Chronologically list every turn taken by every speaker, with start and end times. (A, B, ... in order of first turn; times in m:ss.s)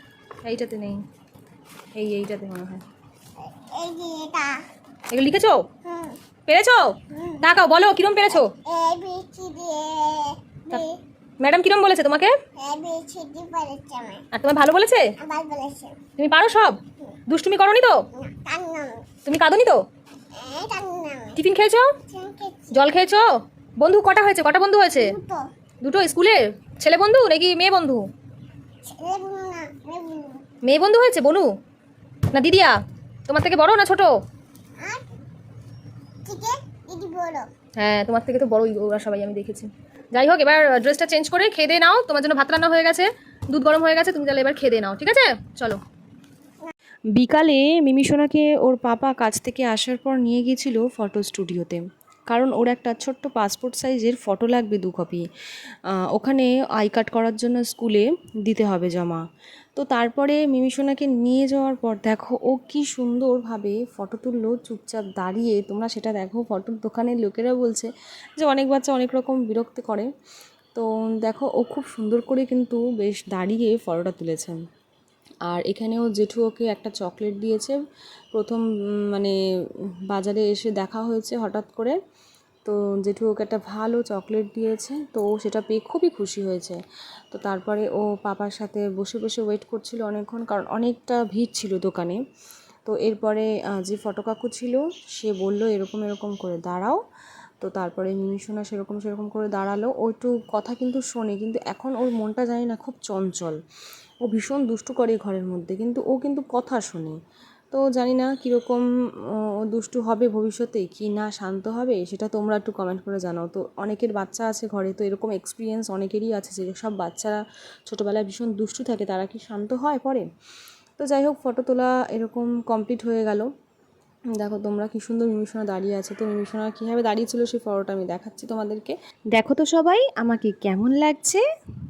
0:00.4-0:01.0 A
0:02.0-0:02.8 A
0:03.7-0:04.6 B
0:05.1-0:05.6 A
0:05.9-0:06.2 B
0:06.5-0:08.5 A
0:08.6-0:10.9 B
0:11.4-0:12.3 A
0:12.6-0:14.2 B
0:14.3-0:15.1 A
0:15.2-0:16.0 B
0:16.2-0:18.0 A
0:18.2-0:19.0 B
0:19.2-0:19.8 A
0:20.3-0:21.4 B
0:21.4-0:21.9 A
0:22.1-0:22.7 B
0:22.7-0:25.2 A
0:25.0-0:25.5 B
0:25.8-0:28.1 A
0:28.8-0:30.4 B
0:30.6-0:31.5 A
0:32.3-0:32.8 A
0:33.3-0:34.2 A
0:34.8-0:35.0 B
0:36.2-0:37.5 B
0:37.8-0:45.8 A
0:47.2-0:51.7 C
0:52.3-0:55.2 C
0:52.8-0:55.1 A
0:55.9-0:59.2 C
0:59.8-1:10.1 C
1:10.7-1:14.6 C
1:15.5-1:17.8 C
1:18.3-1:19.3 C
1:20.1-1:22.0 C
1:22.6-1:32.2 C
1:32.8-1:37.0 C
1:37.6-1:43.6 C
1:44.2-1:47.2 C
1:47.7-1:48.8 C
1:49.6-2:00.2 C
2:01.0-2:03.5 C
2:04.4-2:11.4 C
2:05.2-2:08.9 A